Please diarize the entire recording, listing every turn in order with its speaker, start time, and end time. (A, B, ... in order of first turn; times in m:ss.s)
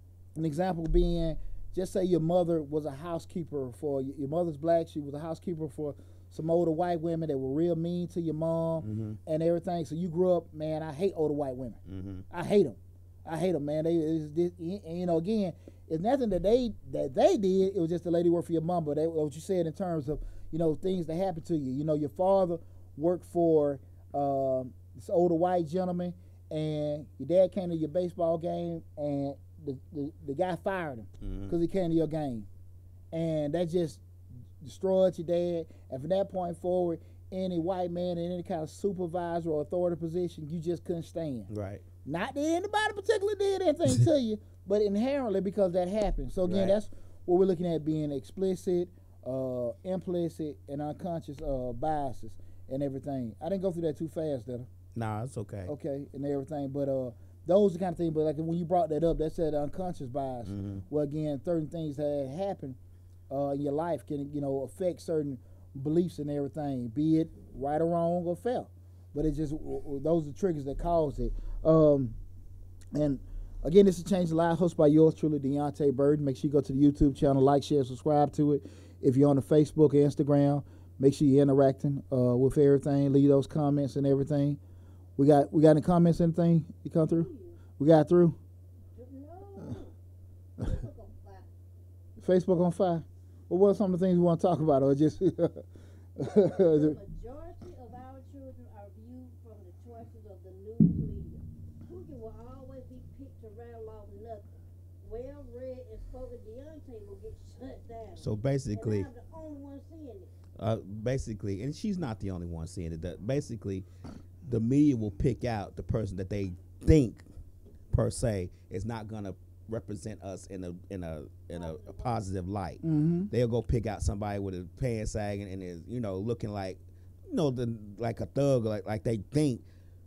0:00.4-0:11.8 A
0:08.8-0:09.2 B
0:11.9-0:12.2 B
0:12.3-0:32.5 A
0:31.2-0:31.6 B
0:33.1-0:34.0 A
0:34.6-0:41.5 A
0:41.5-0:41.8 B
0:42.1-0:54.7 A
0:46.4-0:46.8 B
0:55.0-0:55.7 B
0:55.7-1:02.8 A
1:00.5-1:00.8 B
1:03.3-1:12.2 A
1:13.0-1:24.6 A
1:25.2-1:28.4 A
1:27.0-1:27.6 C
1:28.9-1:29.9 C
1:30.6-1:31.5 C
1:32.2-1:35.6 A
1:36.2-1:37.0 A
1:36.2-1:44.5 C
1:45.0-1:50.3 C
1:48.2-1:49.1 B
1:50.6-1:53.9 B
1:54.5-1:57.2 B
1:57.9-2:09.6 B
2:01.6-2:02.2 C
2:02.8-2:03.3 A